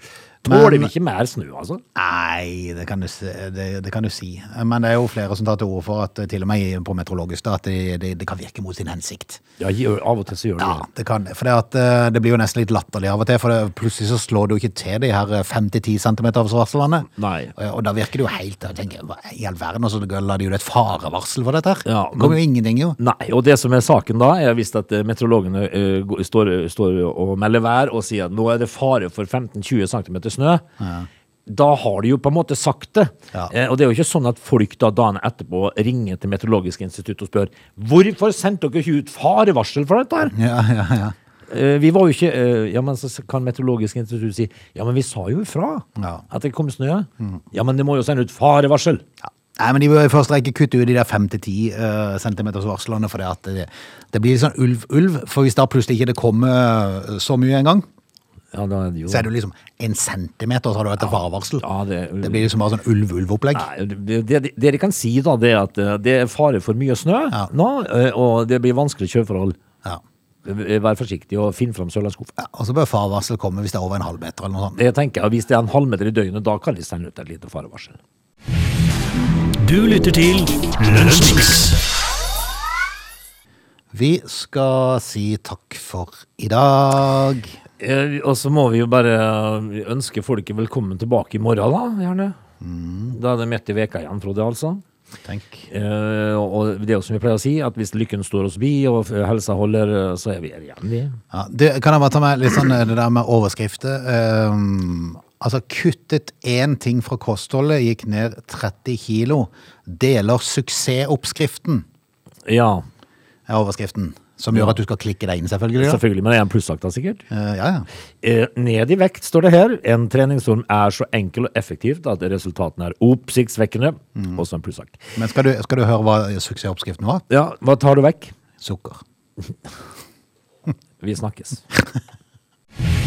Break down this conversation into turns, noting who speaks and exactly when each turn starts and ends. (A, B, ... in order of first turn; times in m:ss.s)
0:00.4-0:00.9 A
0:00.4-0:01.8 B
0:02.0-0:09.4 A
0:09.6-0:10.8 B
0:10.6-0:23.0 A
0:17.2-0:17.5 B
0:21.9-0:22.4 B
0:23.0-0:30.6 B
0:30.8-0:31.1 A
0:31.5-0:40.4 B
0:40.3-0:41.1 A
0:41.5-0:49.0 B
0:46.0-0:46.2 A
0:49.2-0:57.9 A
0:58.5-0:59.3 B
0:59.1-1:01.6 A
1:01.0-1:02.5 B
1:02.2-1:03.7 A
1:03.5-1:09.6 B
1:10.4-1:12.3 B
1:12.4-1:14.8 A
1:14.8-1:18.0 B
1:19.6-1:21.8 C
1:23.9-1:27.6 A
1:27.8-1:32.4 B
1:32.6-1:33.2 A
1:33.1-1:34.8 B
1:35.3-1:35.6 A
1:35.7-1:41.2 B
1:41.3-1:51.8 A
1:52.4-1:52.9 B
1:53.5-1:56.0 A
1:55.8-1:57.2 B
1:57.3-1:57.9 A
1:58.2-2:05.0 B
2:04.2-2:04.4 A
2:05.2-2:07.2 A
2:07.3-2:08.3 B
2:08.6-2:09.0 A
2:11.0-2:11.6 B